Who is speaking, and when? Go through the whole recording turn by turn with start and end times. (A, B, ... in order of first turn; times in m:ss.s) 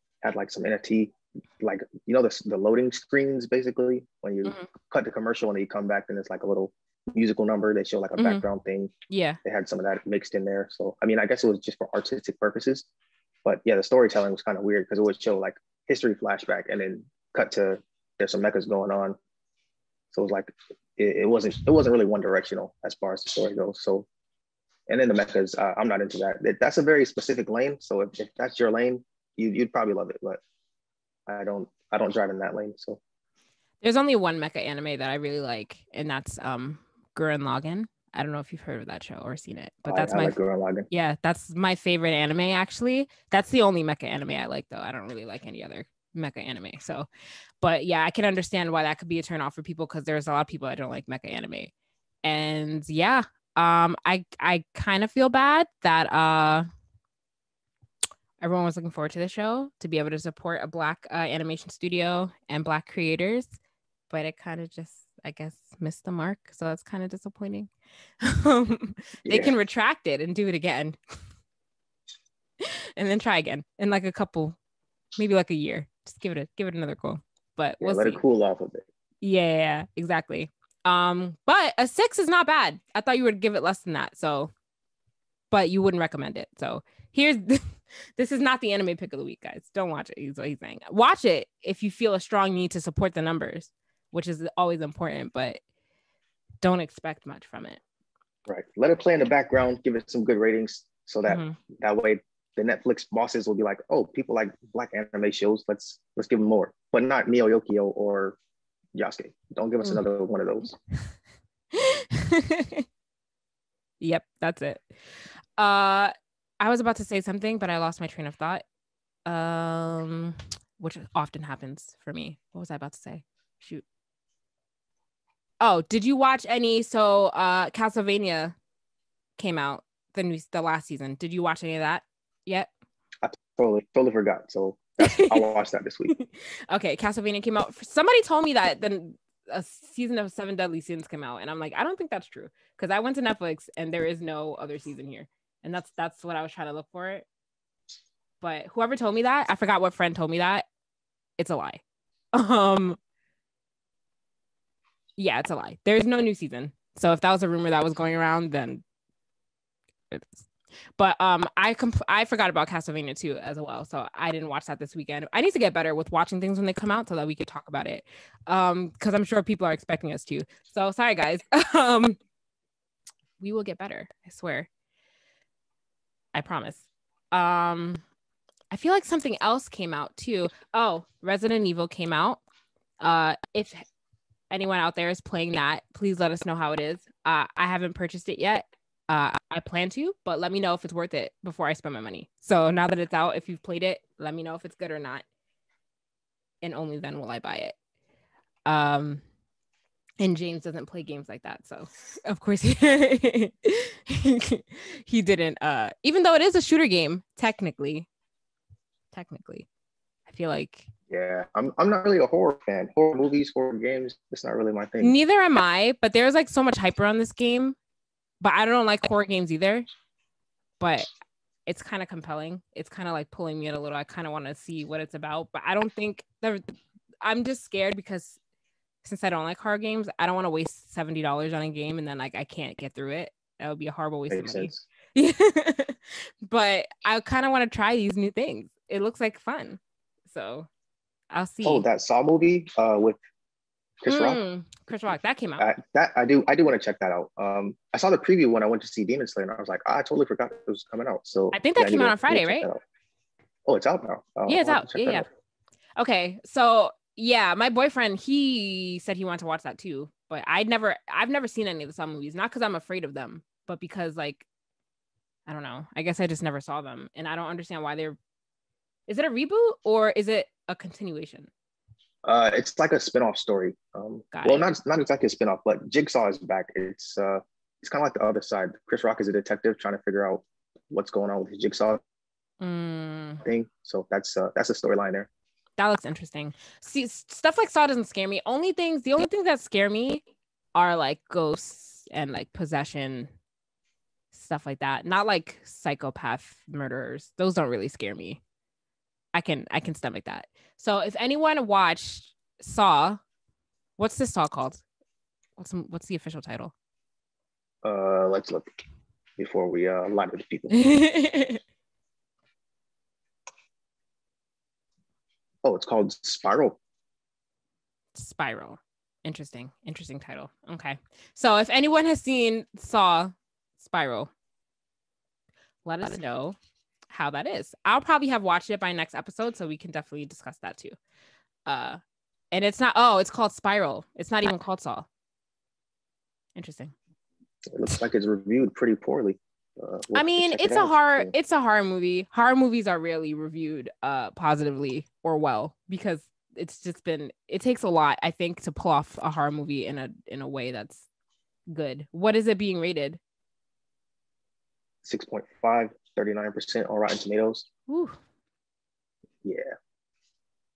0:00.2-0:08.9 A
0:08.2-0:08.4 B
0:09.1-0:09.4 B
0:09.4-0:12.9 A
0:13.4-0:19.2 A
0:20.1-0:24.1 A
0:24.9-0:30.4 A
0:31.3-0:33.0 A
0:33.8-0:40.4 B
0:39.9-0:40.9 A
0:40.9-0:47.1 B
0:47.6-0:51.7 B
0:52.2-0:56.7 B
0:58.4-1:03.6 B
1:04.1-1:07.7 B
1:08.2-1:11.0 B
1:09.2-1:09.5 A
1:12.6-1:14.6 B
1:15.2-1:18.2 B
1:17.8-1:18.9 A
1:19.2-1:24.5 B
1:25.5-1:35.6 B
1:36.6-1:37.8 B
1:38.5-1:48.4 A
1:41.3-1:41.6 B
1:49.0-1:50.8 A
1:51.7-1:52.8 B
1:54.0-1:58.6 B
1:59.3-2:03.8 B
2:05.6-2:08.6 B
2:09.4-2:12.7 B
2:13.2-2:16.1 A
2:15.0-2:15.4 B
2:16.1-2:27.3 B
2:28.4-2:30.7 B
2:31.4-2:31.8 B
2:32.3-2:33.0 B
2:35.2-2:38.8 B
2:40.1-2:40.5 B
2:41.0-2:52.2 B
2:53.4-2:54.7 B
2:56.3-2:58.0 B
2:58.7-3:02.4 B
3:03.0-3:03.9 B
3:04.5-3:15.2 B
3:16.6-3:17.8 B
3:18.7-3:19.2 B
3:20.2-3:28.1 B
3:29.1-3:29.7 B
3:30.3-3:30.9 B
3:31.1-3:35.2 A
3:35.0-3:37.8 B
3:38.4-3:39.9 B
3:40.8-3:41.1 B
3:41.7-3:48.4 B
3:49.0-4:00.7 B
3:54.3-3:54.9 A
4:01.3-4:01.8 B
4:01.6-4:03.2 A
4:04.0-4:04.4 A
4:04.1-4:05.7 B
4:05.6-4:12.8 A
4:11.5-4:12.7 B
4:13.7-4:15.3 A
4:14.5-4:15.3 B
4:16.0-4:24.5 B
4:25.5-4:28.2 B
4:29.1-4:31.5 B
4:32.2-4:42.0 A
4:34.3-4:34.7 B
4:42.6-4:43.4 B
4:43.4-4:45.3 A
4:45.8-4:50.2 B
4:50.8-4:53.3 B
4:54.3-4:58.4 B
4:59.3-5:03.2 B
5:04.0-5:04.8 B
5:05.6-5:06.7 B
5:07.8-5:08.7 A
5:09.4-5:10.8 A
5:10.7-5:11.6 B
5:15.6-5:16.8 A
5:18.2-5:24.3 B
5:25.9-5:26.6 B
5:27.1-5:31.0 B
5:31.7-5:32.0 B
5:32.5-5:35.1 B
5:36.6-5:36.9 B
5:37.7-5:41.3 A
5:40.1-5:51.1 B
5:51.7-5:53.2 B
5:55.0-5:57.7 A
5:57.9-5:58.2 B
5:59.4-5:59.7 A